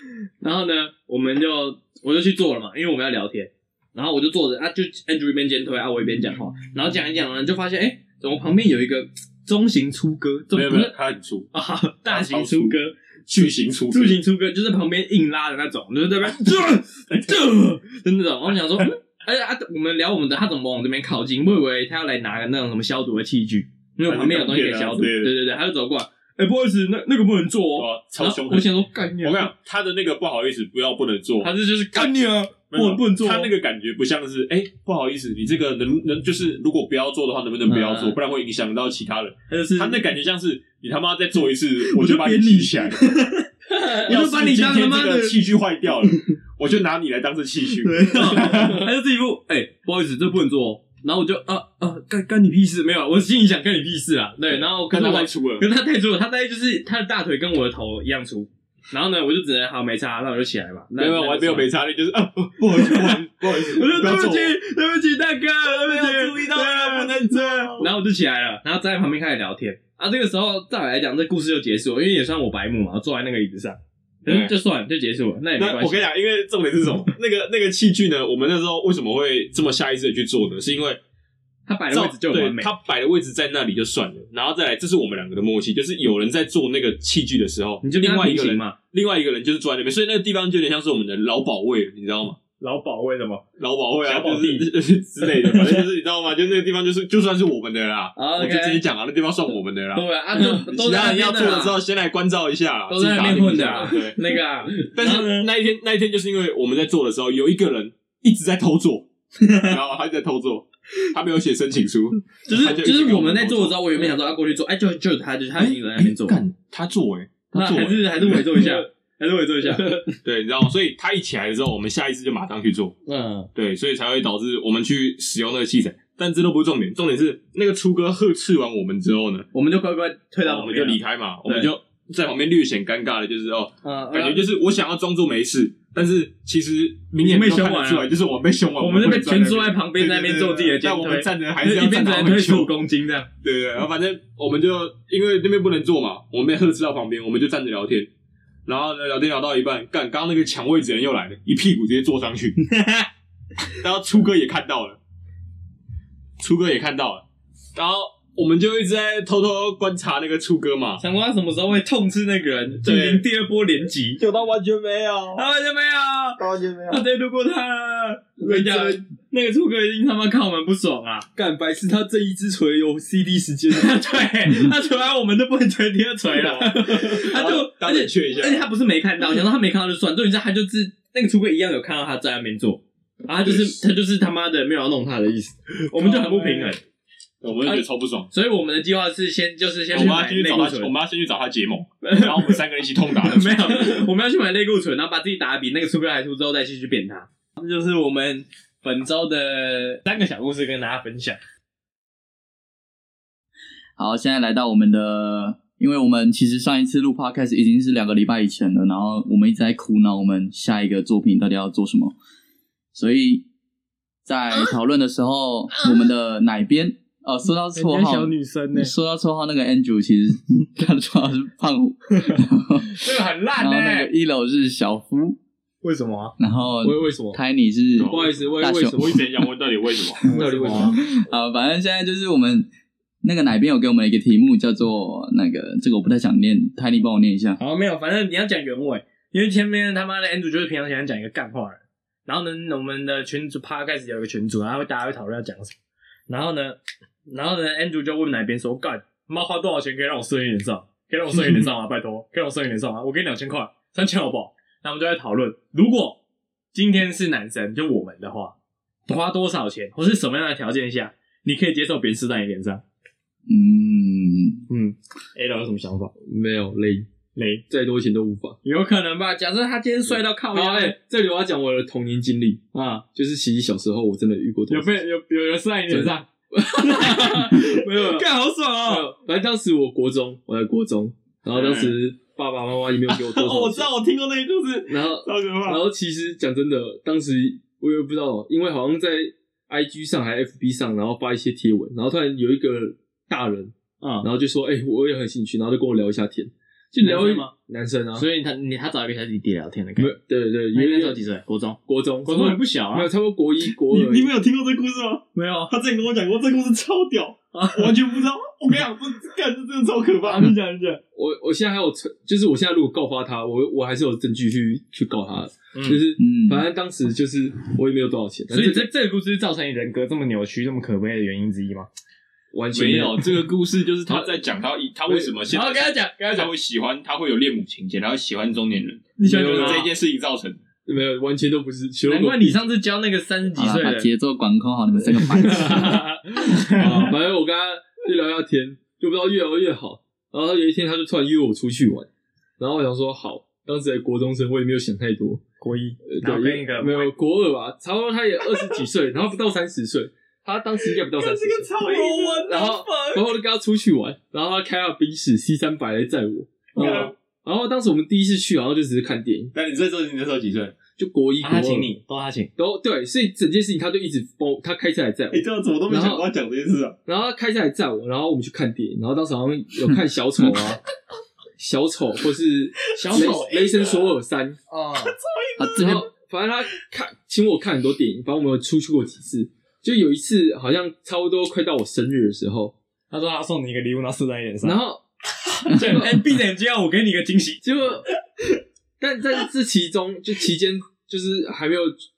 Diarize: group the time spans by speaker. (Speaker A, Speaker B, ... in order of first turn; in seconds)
Speaker A: 0.4-10.9, 11.5-29.5, 31.4-33.5, 37.7-38.2, 39.5-40.0, 41.8-45.4, 47.8-61.7, 62.7-76.1, 81.7-82.7, 87.8-88.8, 92.6-93.4, 94.0-94.7, 95.2-95.9, 98.2-98.8, 99.9-101.8, 102.9-105.5, 109.4-109.8, 112.5-116.4, 117.5-120.0, 123.1-123.5, 129.5-131.7, 133.8-134.5, 137.2-138.1, 138.8-143.3, 152.6-153.1, 161.0-164.2, 165.3-171.3, 173.7-186.8, 187.6-190.9, 192.0-201.4, 215.8-216.0, 217.8-218.9, 222.9-224.1, 225.8-226.3, 230.3-231.0, 237.6-245.8, 246.3-256.2, 256.7-258.5, 259.1-262.8, 264.7-266.1, 267.4-267.6, 268.6-270.9, 272.7-273.0, 274.7-279.1, 294.0-294.3, 297.0-297.5, 298.1-300.1, 300.7-303.1, 305.4-305.7, 307.5-308.0, 310.2-311.0, 315.7-316.0, 318.5-321.9, 325.1-326.5, 329.2-329.9, 332.1-334.1, 335.3-337.1, 345.6-347.1, 351.8-353.2, 356.8-357.1, 361.4-362.5, 372.9-373.6, 374.7-375.1, 383.1-384.8, 385.7-387.6
Speaker B: 10.5-11.5, 12.1-14.2, 17.1-17.4, 24.1-25.3, 27.8-43.0, 43.9-48.9, 54.5-55.6, 61.0-64.6, 65.6-67.9, 74.2-74.5, 75.6-81.0, 81.9-92.4, 93.6-104.2, 104.8-114.1, 115.6-118.8, 120.2-123.0, 123.5-129.5, 130.4-142.7, 143.4-148.1, 148.7-152.6, 153.8-155.0, 156.4-157.2, 157.8-161.0, 162.8-163.2, 164.2-165.4, 166.4-167.0, 168.5-169.0, 176.3-178.7, 183.4-183.8, 187.4-188.3, 189.9-194.1, 228.0-228.4, 228.9-230.6, 281.5-281.9, 283.1-285.8, 303.8-310.6, 322.7-330.6, 351.1-352.9, 356.8-357.1, 359.5-360.8, 365.3-367.0, 373.0-374.0, 375.1-376.0
Speaker C: 118.5-118.8, 119.6-120.0, 171.4-174.0, 186.0-186.8, 226.8-227.4, 228.1-229.2, 230.3-231.0, 266.2-267.1, 267.7-268.6, 270.5-272.6, 273.1-275.0, 275.9-278.3, 278.8-283.9, 284.9-298.2, 300.0-301.2, 301.9-304.3, 311.1-318.9, 322.5-323.5, 329.2-329.9, 330.9-332.6, 336.4-342.1, 342.6-345.4, 346.1-359.5, 361.0-361.9, 362.6-366.3, 367.1-370.8, 371.6-374.6, 375.8-382.8, 384.6-385.0, 385.6-386.2, 387.6-388.1, 389.0-391.9
Speaker D: 204.0-212.1, 212.9-213.4, 214.2-223.0, 223.6-225.4, 226.4-229.2, 230.7-232.7, 233.2-237.6, 263.5-264.6, 316.2-316.6, 333.6-336.0, 375.6-376.1